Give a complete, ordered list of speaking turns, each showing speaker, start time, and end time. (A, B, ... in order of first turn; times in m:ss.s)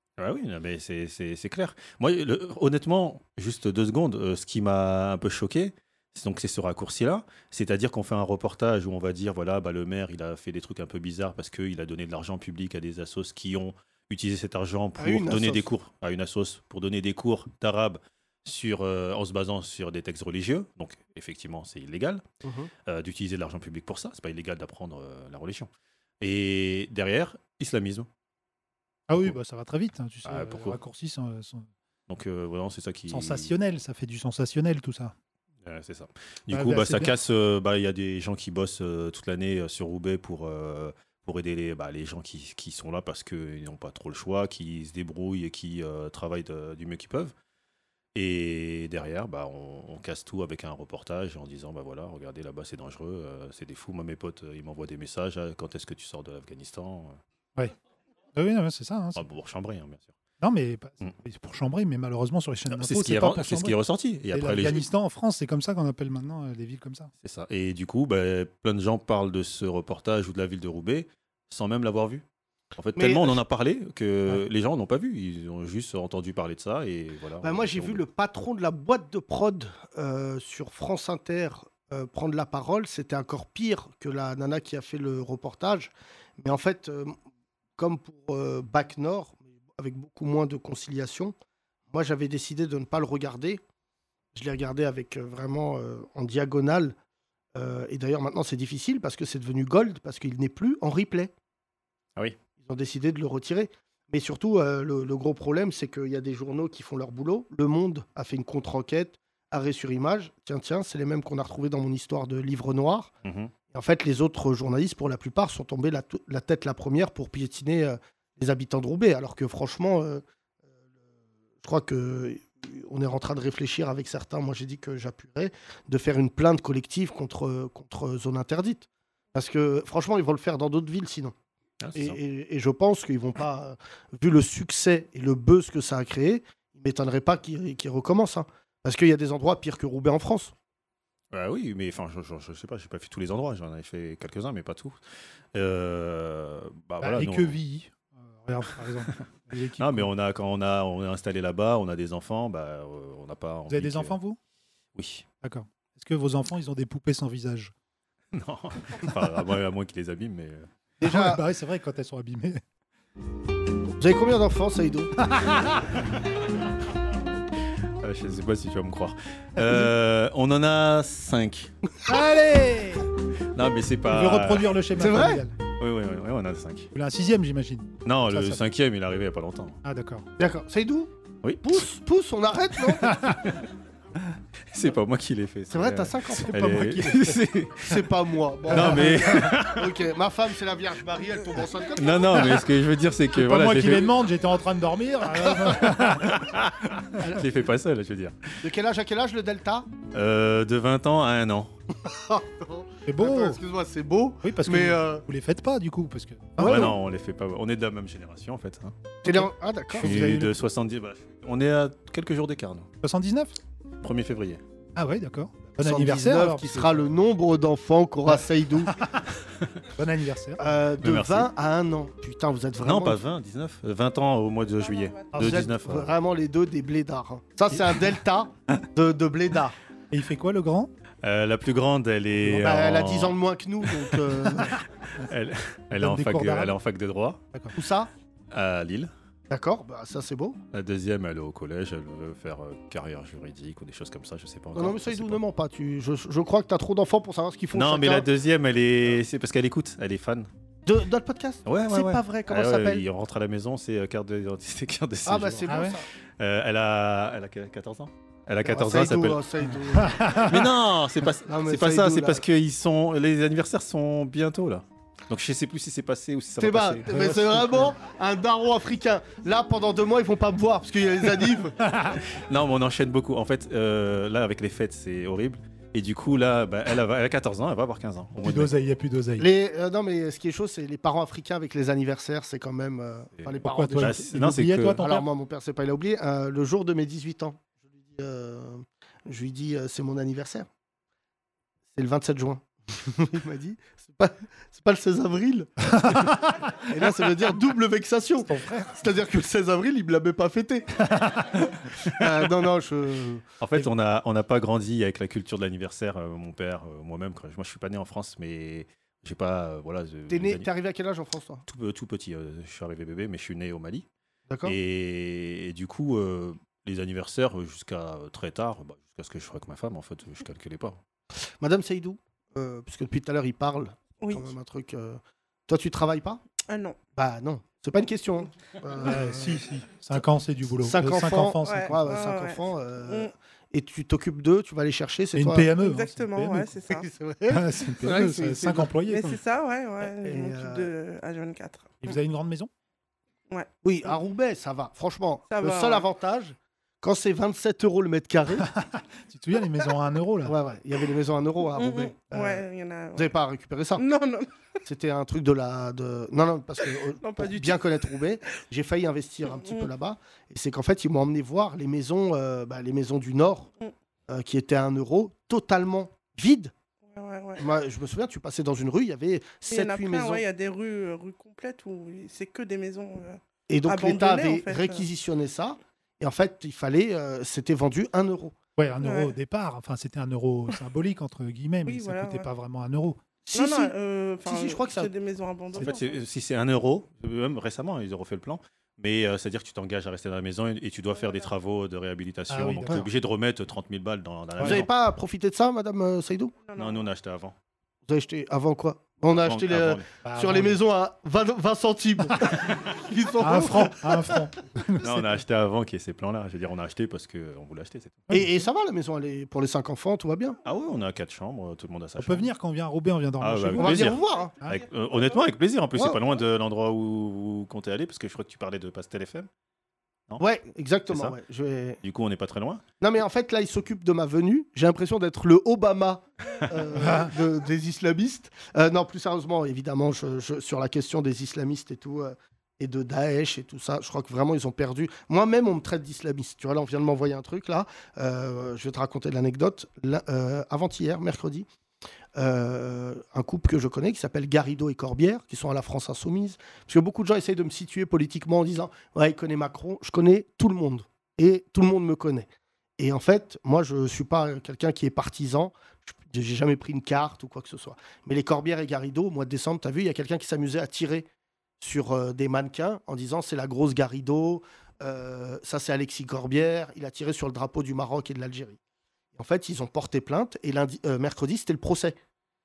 0:00.2-0:22.2 A
0:15.0-0:15.7 B
0:22.4-0:22.7 B
0:22.8-0:25.7 A
0:26.2-0:28.1 A
0:29.1-0:31.7 C
0:30.2-0:30.8 A
0:32.1-0:33.5 A
0:33.1-0:35.1 C
0:35.6-0:47.3 A
0:36.5-0:37.1 C
0:48.1-0:57.2 A
0:58.3-0:59.2 C
0:59.2-1:00.2 A
1:00.4-1:03.8 C
1:02.7-1:04.9 A
1:04.3-1:07.1 C
1:07.2-1:12.2 A
1:12.8-1:18.0 A
1:13.0-1:13.4 B
1:17.4-1:27.2 B
1:27.8-1:31.3 B
1:31.9-1:33.6 B
1:34.3-1:36.9 B
1:37.5-1:41.3 B
1:42.6-1:53.1 B
1:53.2-1:53.5 A
1:53.7-2:00.2 B
2:01.6-2:11.3 B
2:11.8-2:12.2 A
2:11.9-2:20.5 B
2:21.3-2:25.0 A
2:25.5-2:27.6 A
2:27.0-2:30.1 C
2:29.8-2:34.2 A
2:33.7-2:34.4 C
2:35.0-2:35.2 A
2:35.4-2:37.7 C
2:38.3-2:40.6 A
2:41.0-2:41.4 B
2:41.0-2:42.6 C
2:44.0-2:45.1 B
2:45.2-2:45.8 C
2:48.0-2:51.7 A
2:52.1-2:53.1 C
2:53.5-2:54.8 A
2:54.0-2:55.5 C
2:55.0-2:55.4 B
2:55.8-2:56.9 A
2:56.9-2:58.6 C
2:58.0-2:59.8 A
2:59.8-3:00.3 C
3:00.4-3:03.3 B
3:01.4-3:01.8 A
3:03.0-3:03.3 C
3:04.7-3:08.0 A
3:05.7-3:12.5 B
3:08.7-3:09.9 A
3:08.7-3:09.5 C
3:12.0-3:14.1 A
3:13.3-3:16.3 C
3:15.4-3:15.9 B
3:15.8-3:18.4 A
3:18.6-3:19.9 B
3:20.1-3:21.7 A
3:22.0-3:25.2 B
3:23.0-3:23.6 C
3:24.4-3:26.9 C
3:26.6-3:29.0 A
3:26.6-3:26.9 B
3:29.2-3:30.2 B
3:29.3-3:30.6 C
3:30.0-3:32.9 A
3:33.0-3:33.5 C
3:34.0-3:34.6 A
3:35.0-3:37.0 C
3:35.8-3:39.0 B
3:38.8-3:39.2 C
3:40.0-3:40.6 C
3:40.6-3:43.2 B
3:41.0-3:41.5 A
3:42.8-3:46.1 A
3:44.6-3:45.4 D
3:45.4-3:45.6 C
3:45.4-3:49.7 B
3:50.1-3:50.9 C
3:51.2-3:57.4 A
3:52.4-3:54.8 B
3:56.0-3:56.8 C
3:57.7-3:58.1 B
3:58.5-3:59.1 A
3:59.5-4:00.6 B
4:00.7-4:05.4 A
4:04.7-4:08.2 B
4:07.7-4:10.5 A
4:10.8-4:13.0 B
4:11.6-4:19.4 A
4:15.2-4:16.0 B
4:15.7-4:16.0 C
4:18.6-4:20.5 B
4:19.9-4:20.6 C
4:20.5-4:27.7 A
4:21.4-4:22.4 B
4:26.6-4:31.8 B
4:27.1-4:27.9 C
4:31.8-4:32.2 C
4:32.3-4:38.7 A
4:38.4-4:39.4 C
4:39.4-4:44.3 B
4:43.4-4:45.1 A
4:43.6-4:45.2 C
4:44.9-4:50.7 B
4:51.9-5:00.9 B
4:56.0-4:56.4 C
4:58.4-4:59.0 C
5:01.0-5:01.6 C
5:02.0-5:03.4 B
5:03.6-5:10.7 A
5:10.3-5:11.6 B
5:11.6-5:14.0 A
5:14.5-5:14.8 B
5:14.6-5:21.0 A
5:21.6-5:26.4 B
5:24.2-5:24.5 D
5:26.7-5:27.0 D
5:27.1-5:29.6 B
5:29.0-5:32.0 C
5:30.8-5:35.7 B
5:31.6-5:33.3 D
5:35.3-5:36.7 C
5:35.8-5:37.1 D
5:36.9-5:38.9 B
5:37.5-5:39.4 C
5:39.0-5:42.2 D
5:40.0-5:40.9 B
5:42.0-5:42.7 C
5:43.5-5:44.1 D
5:43.8-5:48.7 B
5:45.5-5:46.1 D
5:48.6-5:50.6 C
5:50.4-5:54.0 B
5:51.8-5:53.3 D
5:54.0-5:54.5 D
5:54.8-6:03.7 B
5:57.2-5:58.0 D
5:59.4-5:59.9 D
6:04.3-6:06.7 B
6:07.1-6:07.7 D
6:07.6-6:10.4 B
6:09.6-6:15.1 D
6:13.7-6:18.5 B
6:18.8-6:23.2 C
6:19.0-6:19.3 D
6:21.8-6:22.5 D
6:23.4-6:23.9 B
6:23.5-6:26.1 D
6:24.4-6:25.1 B
6:25.8-6:34.9 A
6:31.1-6:31.5 D
6:32.5-6:33.0 C
6:34.6-6:36.5 B
6:36.7-6:37.1 D
6:36.8-6:37.5 A
6:38.1-6:44.4 B
6:39.3-6:40.1 A
6:40.2-6:40.8 C
6:43.4-6:45.4 C
6:45.0-6:48.3 A
6:48.3-6:48.6 C
6:48.3-6:50.6 B
6:50.6-6:52.5 A
6:52.2-6:54.8 C
6:53.4-6:59.5 A
6:53.8-6:54.5 B
7:00.4-7:02.0 B
7:01.1-7:01.4 A
7:02.0-7:02.8 A
7:03.0-7:21.7 B
7:07.0-7:07.3 C
7:22.4-7:41.3 B
7:41.8-7:48.8 B
7:49.3-7:52.2 B